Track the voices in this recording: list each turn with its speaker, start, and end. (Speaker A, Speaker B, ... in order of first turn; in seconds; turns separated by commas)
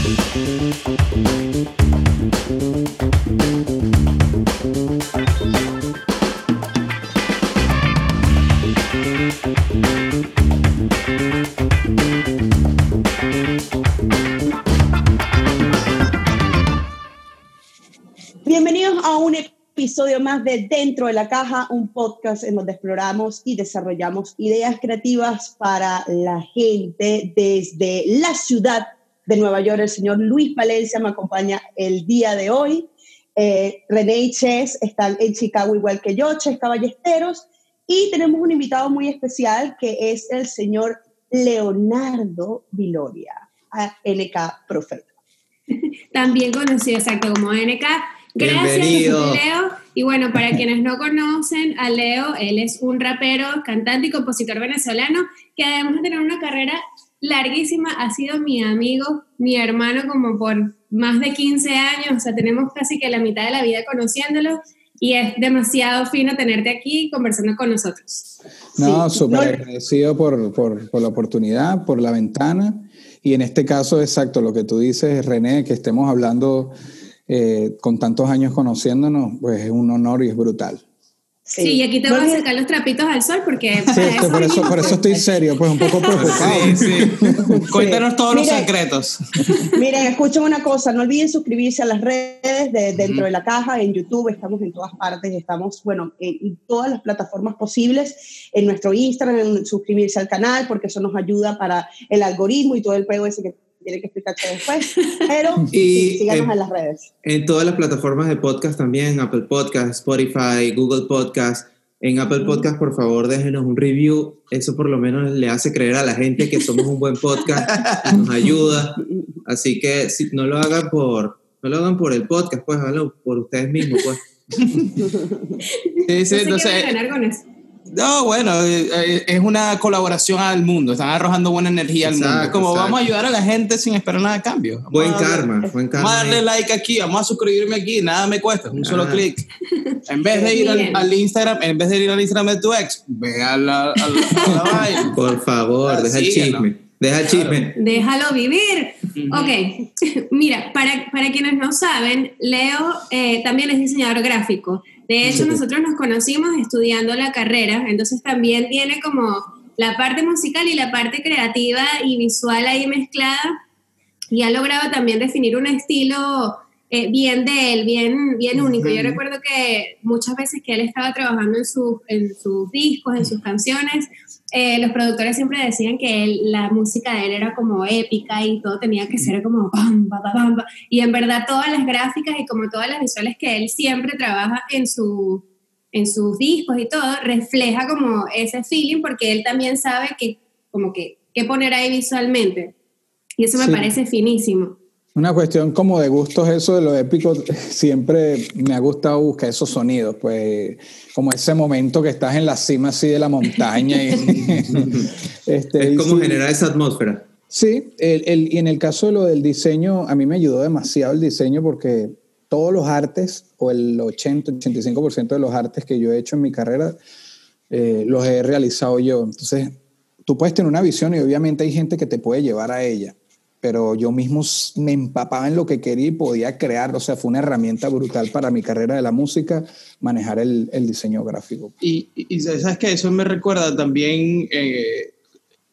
Speaker A: 18.4-45.1, Speaker B: 45.7-68.3, Speaker C: 48.4-49.4, Speaker A: 68.8-69.6, Speaker D: 68.8-76.7, Speaker D: 77.3-80.8, Speaker A: 81.5-82.4, Speaker B: 81.6-85.1, Speaker A: 83.9-85.1, Speaker D: 83.9-87.6, Speaker B: 85.8-86.3, Speaker E: 86.1-89.7, Speaker A: 87.5-88.7, Speaker A: 89.8-107.1, Speaker E: 93.0-93.2, Speaker C: 105.7-106.5, Speaker C: 107.2-124.2, Speaker E: 117.7-118.2, Speaker E: 124.5-125.1, Speaker A: 125.2-125.6, Speaker B: 125.7-127.5, Speaker E: 126.1-127.0, Speaker E: 127.9-139.5, Speaker C: 132.0-133.0, Speaker C: 134.9-136.4, Speaker C: 138.8-139.3, Speaker B: 139.7-140.0, Speaker E: 140.1-145.2, Speaker A: 140.3-141.0, Speaker B: 140.6-141.0, Speaker B: 144.1-145.1, Speaker C: 145.2-147.8, Speaker E: 145.9-147.7, Speaker B: 147.8-163.6, Speaker E: 149.2-149.5, Speaker B: 164.3-192.7, Speaker E: 168.6-169.2, Speaker B: 193.4-194.8, Speaker D: 193.6-193.9, Speaker D: 195.2-206.4, Speaker E: 204.4-205.0, Speaker C: 205.8-207.3, Speaker D: 207.5-217.0, Speaker D: 217.7-231.7, Speaker E: 231.8-235.2